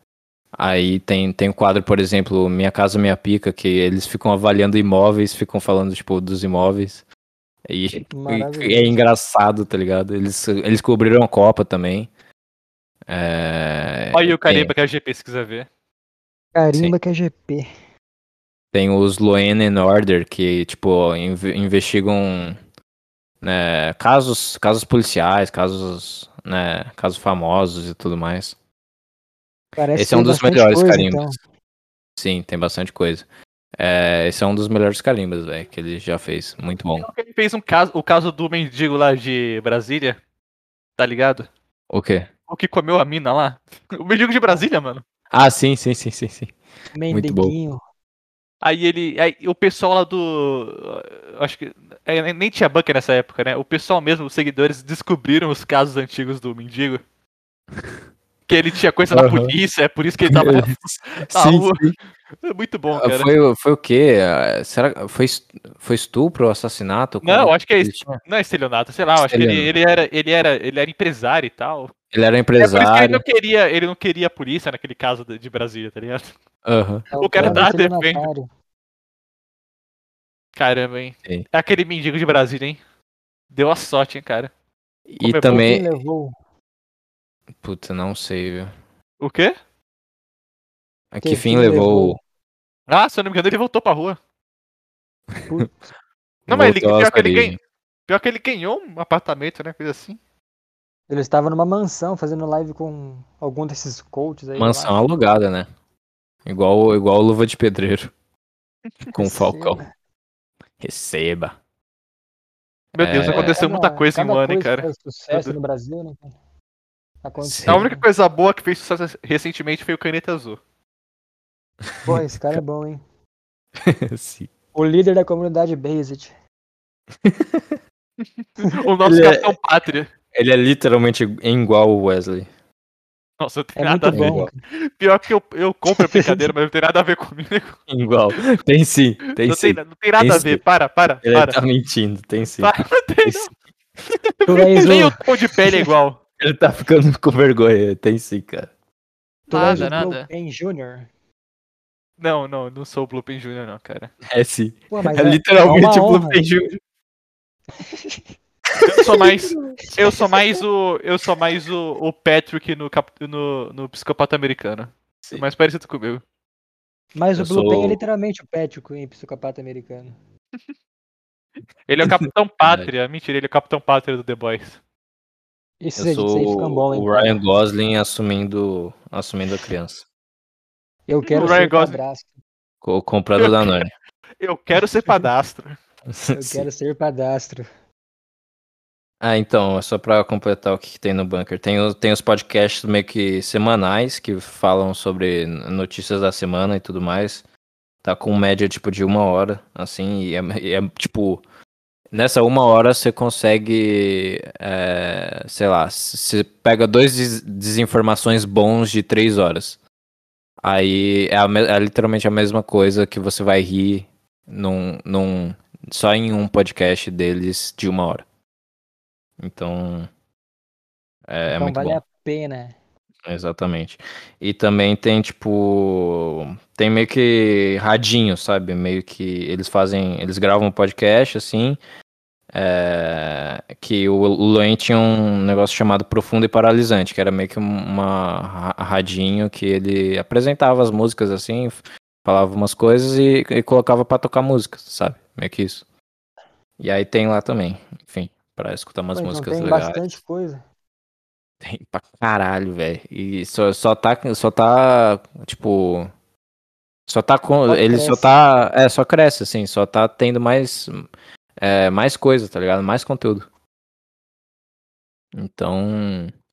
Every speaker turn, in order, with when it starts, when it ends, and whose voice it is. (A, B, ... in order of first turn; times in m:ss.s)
0:00.6-0:07.0 A
0:07.7-0:12.1 A
0:08.1-0:09.0 B
0:13.1-0:14.7 A
0:14.1-0:15.7 C
0:16.5-0:17.7 B
0:18.7-0:22.6 A
0:23.4-0:28.5 A
0:29.8-0:31.4 B
0:30.0-0:31.4 A
0:32.2-0:33.2 A
0:33.8-0:37.1 A
0:37.0-0:40.2 C
0:41.0-0:41.5 C
0:41.9-0:42.3 A
0:42.5-0:45.0 C
0:45.3-0:46.5 A
0:46.9-0:47.8 B
0:47.1-0:47.5 A
0:48.6-0:57.0 C
0:58.5-1:01.8 C
0:59.1-0:59.5 A
1:00.2-1:02.0 A
1:02.4-1:03.3 C
1:02.9-1:08.2 A
1:07.2-1:11.9 C
1:09.2-1:09.7 A
1:12.1-1:13.2 A
1:12.6-1:16.3 C
1:16.6-1:17.6 A
1:17.1-1:18.5 B
1:17.2-1:18.3 C
1:20.6-1:22.8 C
1:23.5-1:24.5 C
1:25.1-1:25.9 A
1:25.2-1:25.6 C
1:25.5-1:26.3 B
1:27.6-1:28.7 A
1:29.2-1:29.5 C
1:31.1-1:32.2 A
1:31.2-1:32.2 B
1:32.9-1:34.2 C
1:35.5-1:35.9 B
1:36.5-1:37.6 A
1:36.5-1:37.5 C
1:38.1-1:40.2 C
1:41.1-1:45.0 B
1:44.6-1:45.7 A
1:46.4-1:48.1 A
1:49.1-1:49.8 A
1:49.1-1:49.9 B
1:50.8-1:51.6 A
1:52.9-1:55.5 C
1:53.0-1:53.6 A
1:53.3-1:56.3 B
1:57.2-1:58.0 B
1:57.4-1:57.8 A
1:57.6-2:00.6 C
2:01.8-2:02.2 A
2:02.0-2:03.0 B
2:03.8-2:04.5 A
2:04.7-2:06.3 B
2:07.2-2:07.8 A
2:08.2-2:10.1 C
2:09.0-2:09.6 A
2:10.3-2:12.5 A
2:13.4-2:17.8 C
2:13.8-2:14.6 B
2:14.1-2:14.5 A
2:15.9-2:16.5 B
2:17.9-2:20.6 A
2:19.3-2:21.6 C
2:21.2-2:22.7 A
2:22.6-2:23.5 C
2:24.2-2:26.2 C
2:24.4-2:25.2 B
2:26.4-2:28.7 A
2:29.5-2:31.1 B
2:29.5-2:30.3 C
2:29.6-2:29.9 A
2:32.2-2:34.1 C
2:34.3-2:36.8 A
2:34.9-2:36.4 B
2:37.8-2:38.2 B
2:38.8-2:46.2 C
2:47.1-2:50.2 B
2:47.4-2:48.0 A
2:51.9-2:54.8 C
2:52.0-2:52.9 A
2:55.8-2:57.4 B
2:56.0-3:00.0 A
3:01.1-3:02.4 B
3:01.3-3:02.0 C
3:02.8-3:03.9 A
3:03.4-3:03.8 C
3:04.4-3:05.8 C
3:06.1-3:06.6 A
3:06.3-3:07.7 B
3:09.2-3:17.4 A
3:18.0-3:21.4 A
3:22.1-3:29.8 A
3:30.6-3:38.2 A
3:39.4-3:40.1 A
3:41.3-3:42.0 A
3:41.5-3:42.7 B
3:43.3-3:51.8 A
3:52.5-4:05.8 A
4:06.8-4:10.0 A
4:09.1-4:10.6 B
4:11.6-4:16.1 A
4:17.1-4:21.1 A
4:17.7-4:18.3 B
4:21.6-4:23.5 A
4:25.3-4:26.3 A